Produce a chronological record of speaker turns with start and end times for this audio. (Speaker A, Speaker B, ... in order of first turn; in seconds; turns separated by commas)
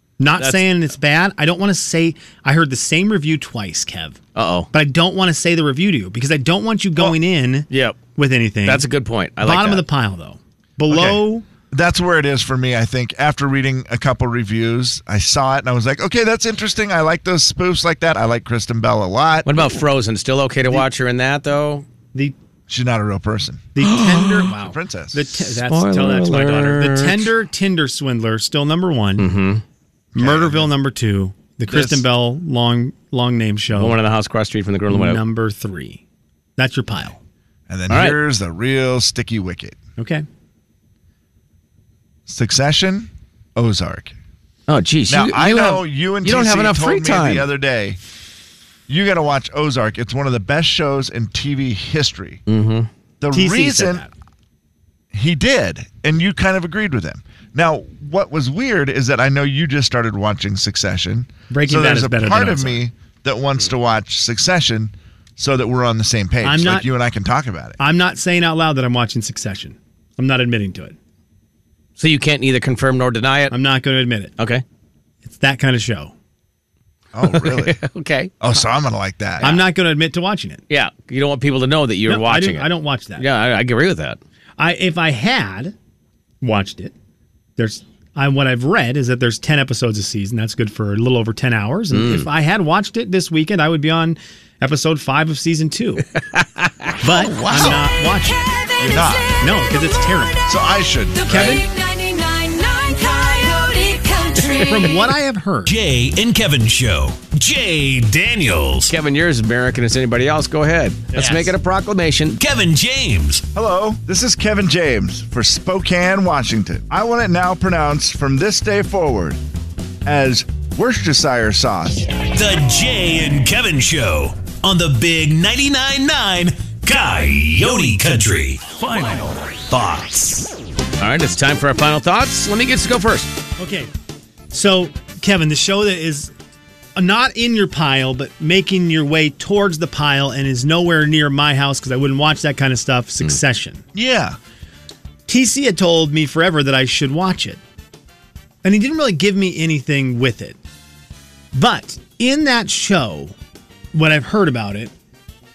Speaker A: 0.2-4.2, Speaker B: 4.3-4.7, Speaker A: 4.7-8.8, Speaker B: 7.7-8.0, Speaker B: 8.6-9.8, Speaker A: 9.4-11.4, Speaker C: 10.9-19.7, Speaker B: 19.4-21.9, Speaker C: 22.7-25.3, Speaker A: 23.8-29.3, Speaker B: 23.9-24.5, Speaker B: 25.6-27.3, Speaker B: 29.2-29.6, Speaker C: 30.1-30.7, Speaker A: 30.2-34.0, Speaker C: 31.7-32.0, Speaker B: 33.8-35.2, Speaker A: 34.9-36.0, Speaker A: 36.6-37.2, Speaker C: 37.7-39.8, Speaker B: 37.9-38.2, Speaker A: 40.0-40.2, Speaker C: 42.3-44.2, Speaker B: 44.7-47.5, Speaker C: 45.1-48.0, Speaker C: 48.9-52.4, Speaker B: 52.5-52.9, Speaker C: 53.2-54.1, Speaker A: 53.3-54.1, Speaker C: 55.1-67.8, Speaker A: 61.5-62.8, Speaker A: 66.4-66.9, Speaker A: 67.8-71.0, Speaker B: 72.0-73.5, Speaker A: 73.5-74.3, Speaker A: 75.2-76.1, Speaker C: 77.1-77.8, Speaker B: 77.2-78.5, Speaker C: 78.4-79.5, Speaker B: 79.4-79.7, Speaker A: 79.4-80.6, Speaker B: 80.7-84.2, Speaker A: 82.1-83.2, Speaker A: 84.6-85.8, Speaker A: 86.4-86.9, Speaker A: 87.6-96.0, Speaker B: 91.9-92.3, Speaker B: 96.4-97.0, Speaker A: 97.0-98.5, Speaker C: 97.0-97.9, Speaker C: 98.8-99.3, Speaker A: 99.3-100.4, Speaker C: 100.5-101.5, Speaker D: 101.1-105.0, Speaker A: 101.3-101.6, Speaker A: 104.6-105.7, Speaker E: 105.7-108.9, Speaker B: 108.9-112.4, Speaker A: 111.2-111.5, Speaker E: 112.4-113.4, Speaker C: 113.5-119.4, Speaker C: 120.0-122.1, Speaker E: 122.2-130.5, Speaker B: 131.0-133.3, Speaker A: 133.6-133.9, Speaker A: 134.5-136.3, Speaker A: 136.9-143.8, Speaker C: 143.9-144.4, Speaker A: 145.3-147.6, Speaker A: 148.6-150.6, Speaker A: 151.5-153.3, Speaker A: 153.9-154.9